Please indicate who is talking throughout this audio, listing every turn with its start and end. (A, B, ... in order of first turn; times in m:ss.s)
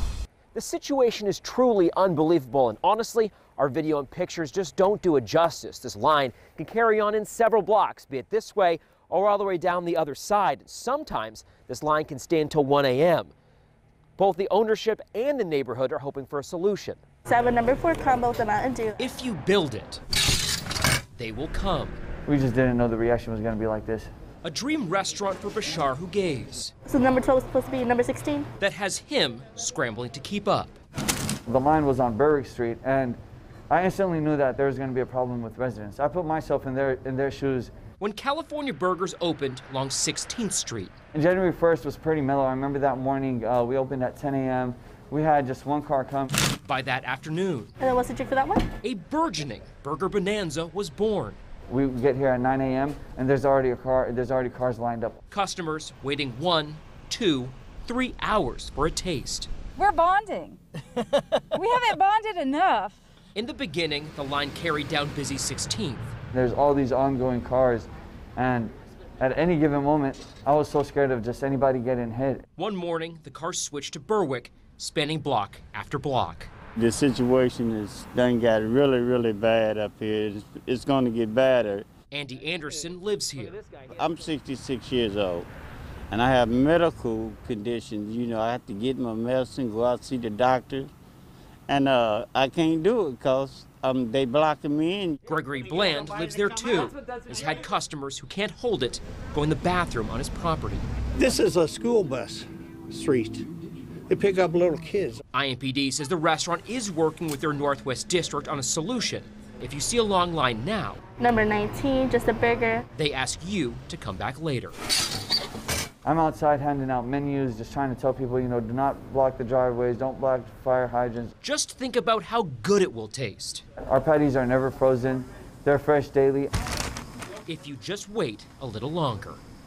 0:00.5-0:13.3 A
0:14.2-0:17.0 A
0:17.3-0:19.0 B
0:19.0-0:20.0 A
0:21.2-0:22.0 A
0:22.3-0:24.1 C
0:24.4-0:26.7 A
0:26.9-0:28.5 B
0:28.6-0:30.8 A
0:31.5-0:33.2 C
0:33.7-0:37.7 C
0:38.0-0:40.9 A
0:41.1-0:46.3 C
0:46.6-0:47.7 A
0:47.8-0:48.7 B
0:48.8-0:51.4 A
0:51.7-0:55.2 C
0:55.3-0:59.5 A
0:59.8-1:00.6 D
1:01.5-1:03.0 D
1:03.4-1:06.1 A
1:06.3-1:12.5 C
1:12.6-1:16.5 A
1:16.8-1:21.9 E
1:22.1-1:23.6 A
1:23.9-1:25.5 E
1:26.1-1:30.9 E
1:31.7-1:35.2 E
1:35.3-1:40.9 A
1:41.2-1:43.5 F
1:44.1-1:45.2 F
1:45.3-1:51.0 A
1:51.2-1:52.8 B
1:52.9-1:54.8 A
1:56.0-2:01.3 C
2:01.4-2:03.6 A
2:03.9-2:06.5 C
2:07.5-2:09.4 A